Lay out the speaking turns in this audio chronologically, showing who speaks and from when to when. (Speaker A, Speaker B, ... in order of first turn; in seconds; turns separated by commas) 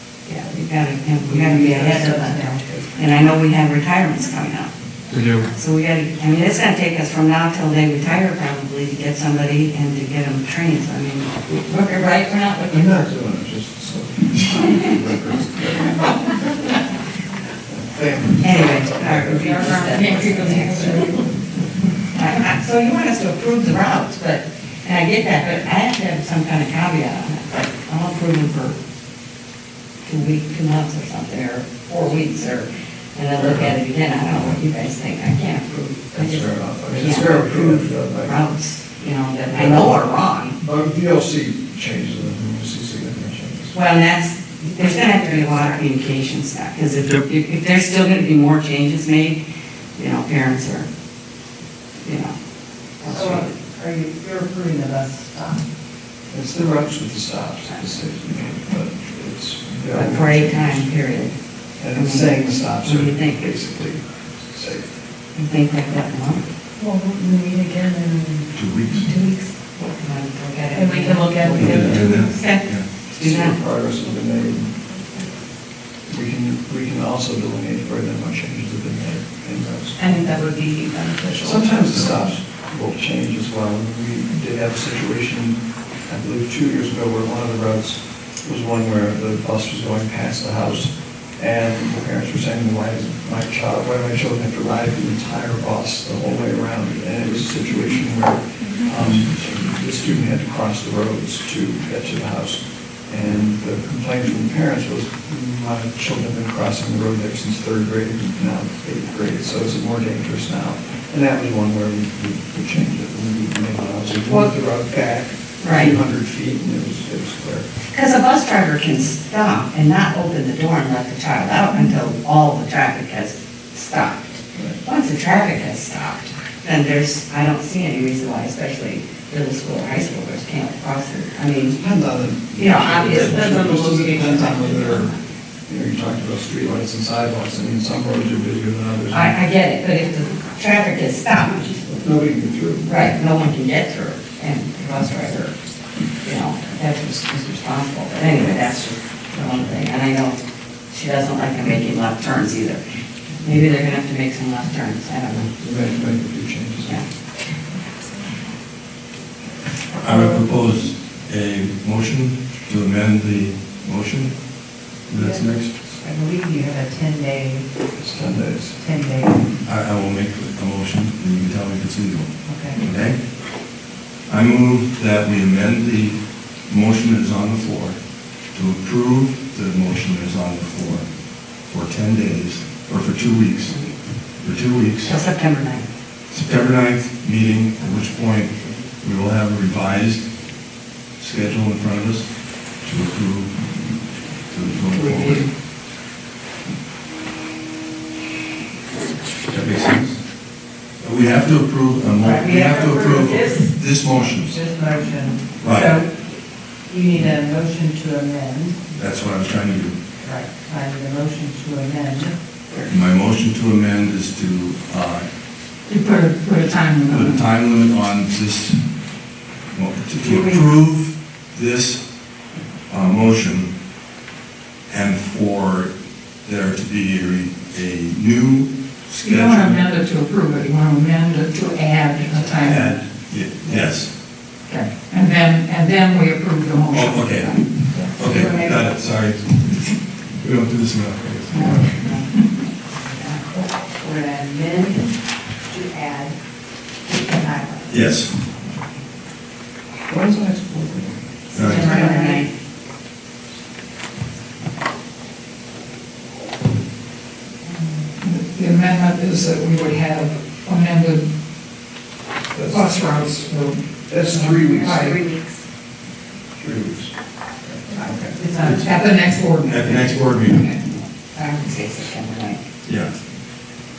Speaker A: 0.2-4.7, Speaker B: 1.2-2.9, Speaker C: 5.1-5.5, Speaker A: 5.5-13.1, Speaker D: 12.7-16.6, Speaker D: 17.7-19.5, Speaker A: 18.4-21.1, Speaker E: 19.4-21.3, Speaker A: 22.1-28.8, Speaker A: 30.0-40.6, Speaker D: 33.4-33.7, Speaker D: 36.1-38.5, Speaker D: 39.5-43.8, Speaker A: 43.7-49.4, Speaker A: 50.0-50.9, Speaker A: 52.0-52.3, Speaker A: 53.0-53.5, Speaker B: 53.0-55.6, Speaker D: 56.3-60.9, Speaker A: 59.9-61.4, Speaker D: 61.8-64.9, Speaker A: 61.9-63.6, Speaker A: 65.3-66.4, Speaker B: 66.8-69.5, Speaker C: 68.5-69.1, Speaker A: 69.7-73.5, Speaker B: 70.7-72.2, Speaker C: 71.5-72.9, Speaker D: 73.1-74.9, Speaker D: 76.1-80.0, Speaker B: 80.0-82.1, Speaker D: 81.4-117.7, Speaker A: 115.6-115.9, Speaker A: 117.9-131.8, Speaker D: 124.5-124.8, Speaker D: 131.8-135.1, Speaker A: 132.6-135.0, Speaker B: 133.2-133.6, Speaker B: 134.3-134.7, Speaker D: 135.7-139.4, Speaker A: 139.1-142.1, Speaker D: 142.0-142.9, Speaker A: 142.8-145.6, Speaker A: 146.2-152.8, Speaker A: 153.4-155.5, Speaker D: 155.6-157.0, Speaker C: 160.0-164.4, Speaker C: 165.1-165.8, Speaker B: 165.1-167.7, Speaker D: 168.0-168.8, Speaker B: 168.7-169.5, Speaker C: 169.6-173.2, Speaker B: 172.4-172.8, Speaker C: 174.3-178.0, Speaker C: 178.5-181.1, Speaker C: 181.6-183.8, Speaker C: 184.4-185.2, Speaker A: 185.0-185.9, Speaker C: 186.3-190.2, Speaker C: 191.2-193.5, Speaker C: 194.5-195.5, Speaker C: 199.5-200.2, Speaker C: 201.0-204.6, Speaker B: 202.2-206.1, Speaker C: 205.6-205.9, Speaker B: 206.8-208.8, Speaker C: 208.9-210.0, Speaker B: 210.2-212.3, Speaker C: 212.8-215.2, Speaker E: 215.9-217.5, Speaker C: 217.1-218.8, Speaker C: 219.7-222.0, Speaker A: 220.2-220.6, Speaker C: 222.9-223.7, Speaker C: 224.9-225.9, Speaker C: 226.4-229.8, Speaker E: 229.2-233.0, Speaker C: 232.6-234.1, Speaker E: 234.7-238.0, Speaker C: 236.9-242.0, Speaker B: 238.1-238.8, Speaker A: 241.5-242.3, Speaker A: 243.1-243.4, Speaker B: 243.9-245.1, Speaker B: 245.6-246.4, Speaker B: 247.1-247.9, Speaker C: 247.9-248.3, Speaker D: 250.1-251.2, Speaker C: 251.5-251.9, Speaker B: 251.5-252.5, Speaker A: 251.5-252.5, Speaker E: 258.2-261.3, Speaker D: 262.5-263.0, Speaker E: 262.7-265.2, Speaker D: 264.1-265.0, Speaker A: 264.7-265.6, Speaker D: 266.6-268.4, Speaker E: 268.4-270.8, Speaker C: 268.5-268.9, Speaker C: 269.6-270.7, Speaker A: 271.3-272.6, Speaker C: 272.8-273.1